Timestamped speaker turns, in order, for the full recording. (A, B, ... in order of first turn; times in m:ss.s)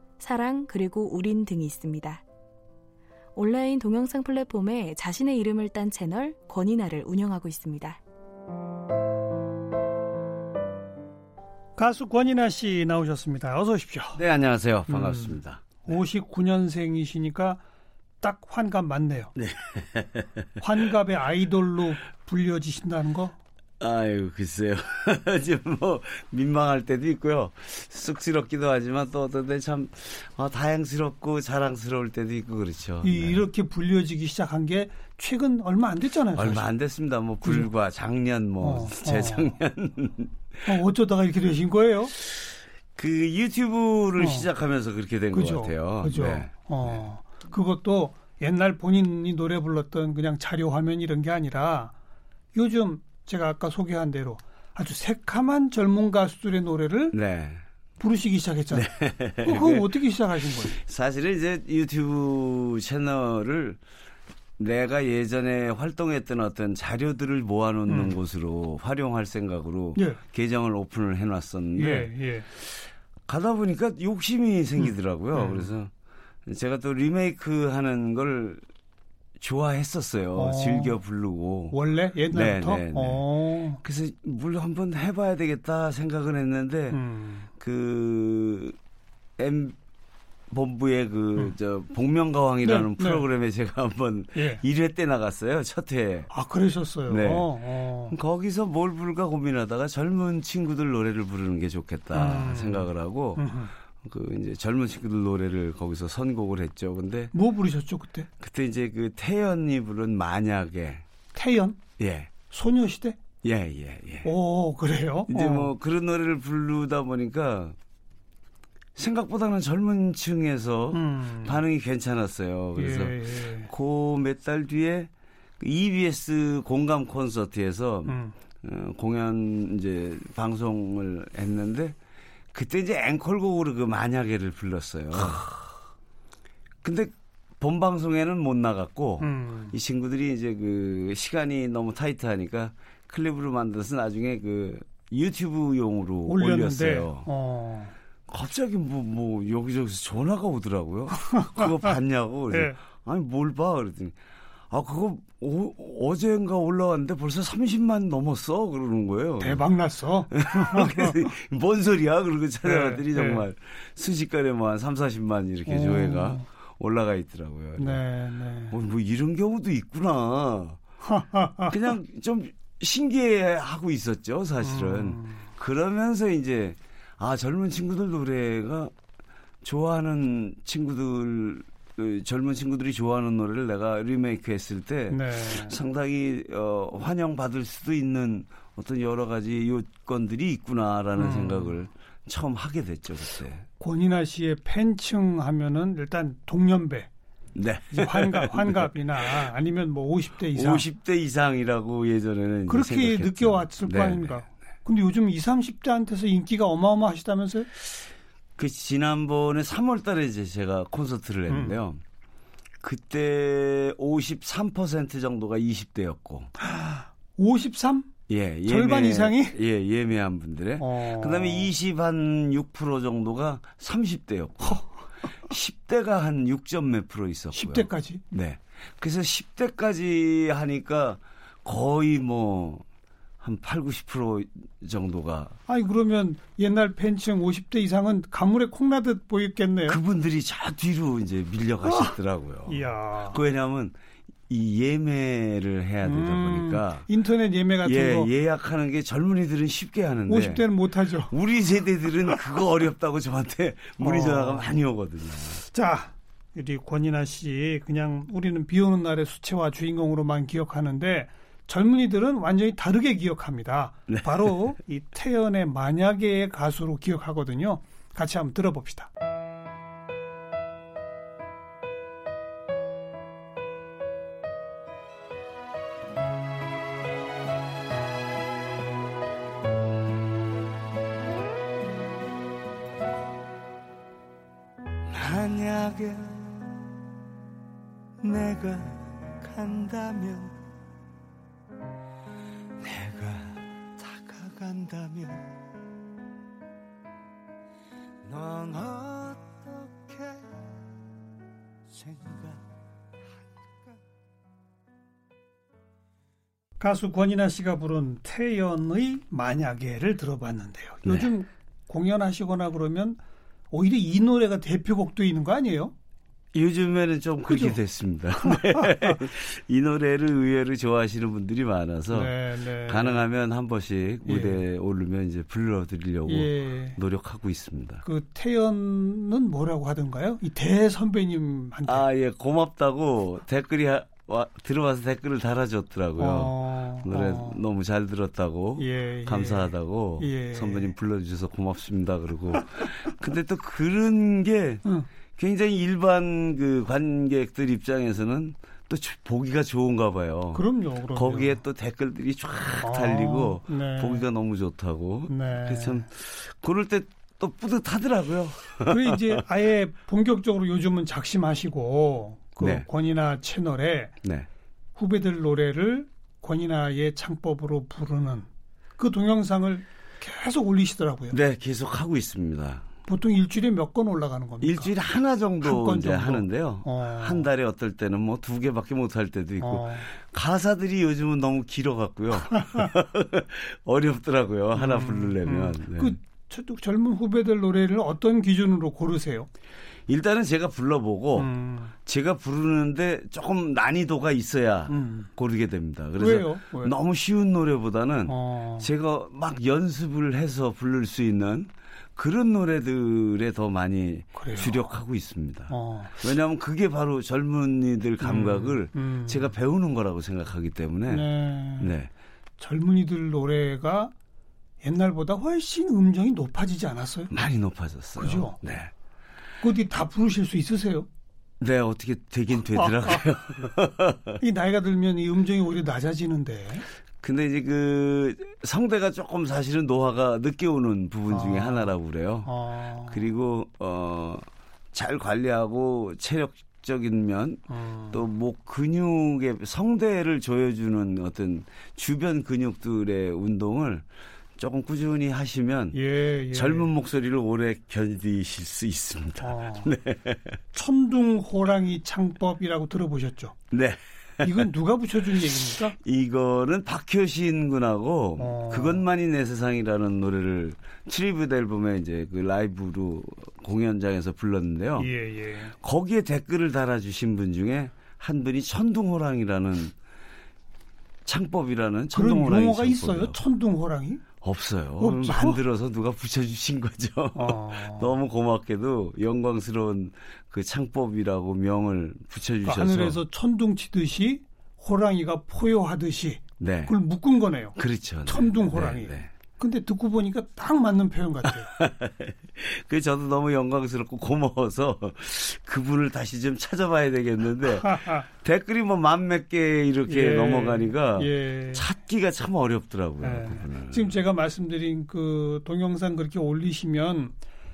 0:00.2-0:02.2 A
0:03.4-0:08.0 A
0:11.8-0:14.2 B
0:14.1-0:15.8 C
0:14.9-0:17.6 B
0:18.2-0:19.3 B
0:19.4-0:20.5 C
0:20.6-0:23.3 B
0:23.8-0:33.4 C
0:33.0-0:36.7 B
0:36.3-0:40.3 C
0:37.4-0:37.7 B
0:38.6-0:39.6 B
0:40.6-0:42.1 B
0:43.0-0:47.0 C
0:44.2-0:44.5 B
0:45.3-0:51.9 B
0:52.5-0:57.2 B
0:57.1-0:57.6 C
0:58.0-0:58.9 B
0:58.7-1:00.0 C
0:59.4-1:00.8 B
1:00.6-1:03.8 C
1:04.6-1:12.6 C
1:07.9-1:08.2 B
1:09.9-1:10.2 B
1:11.8-1:12.5 B
1:13.3-1:15.9 C
1:15.3-1:15.7 B
1:16.4-1:18.6 C
1:19.4-1:21.8 C
1:20.3-1:21.0 B
1:21.7-1:23.8 B
1:22.3-1:23.2 C
1:23.8-1:27.0 C
1:26.9-1:27.5 B
1:27.6-1:28.8 C
1:29.4-1:29.7 C
1:30.5-1:36.3 C
1:32.6-1:33.2 B
1:34.3-1:34.6 B
1:36.3-1:38.1 B
1:37.1-1:47.3 C
1:42.1-1:43.7 B
1:47.3-1:48.3 B
1:48.4-1:51.0 C
1:51.3-1:51.8 B
1:52.0-1:52.3 C
1:52.5-1:53.2 B
1:53.4-1:54.3 C
1:54.2-1:55.7 B
1:55.3-1:57.8 C
1:59.0-2:11.9 C
2:00.9-2:01.6 B
2:02.7-2:03.7 B
2:08.1-2:08.3 B
2:12.5-2:15.6 C
2:16.8-2:27.3 C
2:19.2-2:19.7 B
2:26.2-2:27.9 B
2:28.3-2:34.1 C
2:32.5-2:32.8 B
2:34.7-2:39.6 C
2:39.4-2:41.3 B
2:40.3-2:48.0 C
2:42.6-2:43.4 B
2:45.6-2:46.4 B
2:47.8-2:48.7 B
2:48.7-2:50.8 C
2:51.0-2:51.8 B
2:51.7-2:58.9 C
2:54.6-2:55.4 B
2:59.6-3:13.6 C
3:05.1-3:05.8 B
3:11.2-3:11.8 B
3:13.8-3:17.1 B
3:17.5-3:19.4 C
3:17.9-3:20.8 B
3:20.5-3:24.4 C
3:22.7-3:27.7 B
3:28.6-3:32.0 C
3:31.5-3:31.8 B
3:32.8-3:36.5 C
3:36.6-3:38.1 B
3:38.3-3:44.8 C
3:38.6-3:39.6 B
3:40.8-3:41.7 B
3:45.5-3:52.8 C
3:47.5-3:48.2 B
3:53.4-3:55.6 C
3:55.7-4:00.0 B
3:59.8-4:04.0 C
4:01.8-4:02.1 B
4:02.7-4:03.4 B
4:04.5-4:07.1 C
4:06.0-4:08.3 B
4:07.8-4:10.7 C
4:10.3-4:11.3 B
4:11.3-4:15.6 C
4:14.0-4:14.7 B
4:15.6-4:29.1 B
4:24.1-4:24.5 C
4:45.1-4:46.7 C
4:48.2-4:50.6 C
4:52.8-4:55.6 C
4:58.2-5:00.7 C
5:01.9-5:02.6 C
5:06.8-5:15.9 B
5:11.0-5:11.3 C
5:16.5-5:28.0 C
5:17.5-5:17.8 B
5:18.4-5:19.1 B
5:22.1-5:23.2 B
5:24.2-5:24.6 B
5:26.3-5:27.0 B
5:28.0-5:32.0 B
5:31.8-5:44.8 C
5:36.2-5:37.6 B
5:38.8-5:40.9 B
5:45.4-5:59.4 C
5:50.5-5:51.6 B
5:52.8-5:54.3 B
5:55.3-5:56.0 B
5:58.9-6:04.2 B
6:02.6-6:02.9 C
6:04.2-6:04.5 C
6:05.0-6:11.4 B
6:11.3-6:12.9 C
6:13.0-6:14.9 B
6:14.6-6:26.2 C
6:15.6-6:17.5 B
6:19.6-6:20.1 B
6:24.7-6:29.5 B
6:30.1-6:31.5 C
6:31.4-6:31.9 B
6:32.0-6:52.1 C
6:34.9-6:35.3 B
6:36.2-6:36.9 B
6:38.3-6:38.9 B
6:44.4-6:44.8 B
6:45.7-6:46.3 B
6:48.2-6:49.5 B
6:51.1-6:51.9 B
6:52.6-6:54.1 B
6:54.8-6:57.3 B
6:57.3-6:58.9 C
6:58.2-6:58.6 B
6:59.6-7:01.1 B
7:01.6-7:04.4 C
7:02.6-7:03.4 B
7:04.4-7:06.8 B
7:07.2-7:24.0 C
7:11.3-7:11.9 B
7:12.4-7:13.3 B
7:17.7-7:18.2 B
7:24.6-7:26.0 C
7:25.9-7:26.9 B
7:26.5-7:30.6 C
7:29.4-7:29.9 B
7:30.7-7:33.5 B
7:33.7-7:34.7 C
7:34.4-7:36.0 B
7:35.4-7:45.1 C
7:38.4-7:39.0 B
7:45.0-7:45.7 B
7:45.8-7:49.9 C
7:51.2-7:53.4 C
7:52.1-7:54.2 B
7:54.4-8:03.2 C
7:55.0-7:55.6 B
7:57.3-7:58.1 B
8:02.6-8:11.7 B
8:06.6-8:06.9 C
8:07.8-8:09.3 C
8:11.5-8:24.2 C
8:17.8-8:18.2 B
8:20.1-8:21.8 B
8:23.2-8:27.3 B